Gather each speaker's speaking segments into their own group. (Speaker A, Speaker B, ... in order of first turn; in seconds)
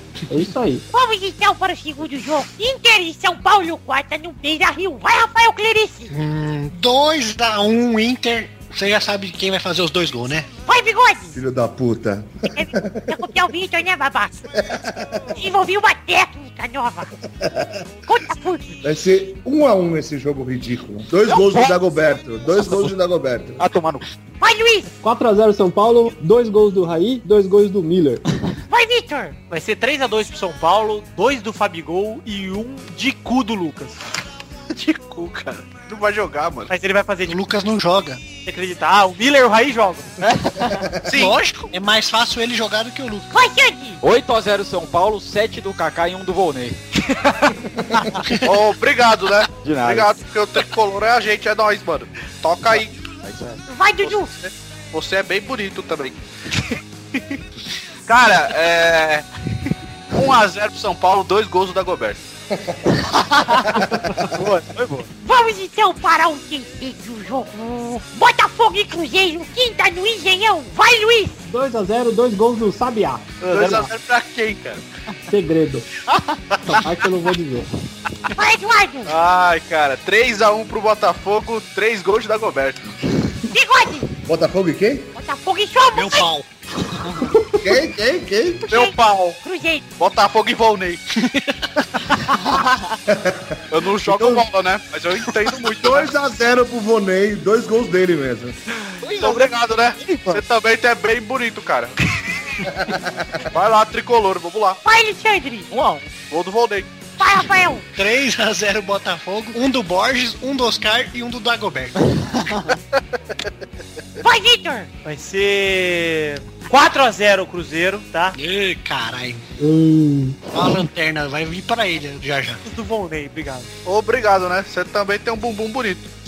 Speaker A: 0.3-0.9, 25.0-28.2, 71.5-73.9, 75.3-75.9, 76.7-77.7, 119.6-120.4
Speaker B: 0.9-6.1, 10.7-11.4, 12.5-14.5, 15.3-17.1, 18.1-18.7, 24.4-24.9, 28.7-29.4, 43.3-44.0, 53.7-54.3, 65.2-71.4, 78.3-79.1, 83.5-84.1, 85.2-86.3, 88.7-89.8, 104.8-105.7, 107.2-107.9, 114.2-114.9
Speaker C: 6.1-10.5, 37.2-38.2, 41.1-43.3, 86.0-87.3, 91.2-91.6, 108.0-112.7, 118.3-119.4, 120.5-122.6
Speaker D: 11.3-13.3, 14.6-15.3, 17.4-17.8, 18.8-23.6, 62.5-62.9, 63.8-64.3, 84.3-85.1, 87.6-88.6, 93.1-94.5, 95.8-98.5, 102.7-103.4
Speaker E: 21.3-21.8, 22.5-22.9, 23.6-24.1, 40.2-40.7, 44.0-46.8, 49.6-50.1, 52.7-53.6, 63.5-65.1, 99.1-100.4, 105.7-106.0
Speaker F: 29.5-34.0, 36.7-37.4, 38.5-40.2, 115.0-118.4, 122.6-123.7
Speaker G: 34.7-36.7, 41.0-41.7, 48.4-52.9, 54.0-56.2, 58.1-59.3, 60.1-62.2, 73.5-74.8, 79.1-83.0, 88.7-89.4, 90.0-91.0, 93.7-96.1, 99.0-102.0, 103.5-104.8, 106.3-106.9, 123.8-126.1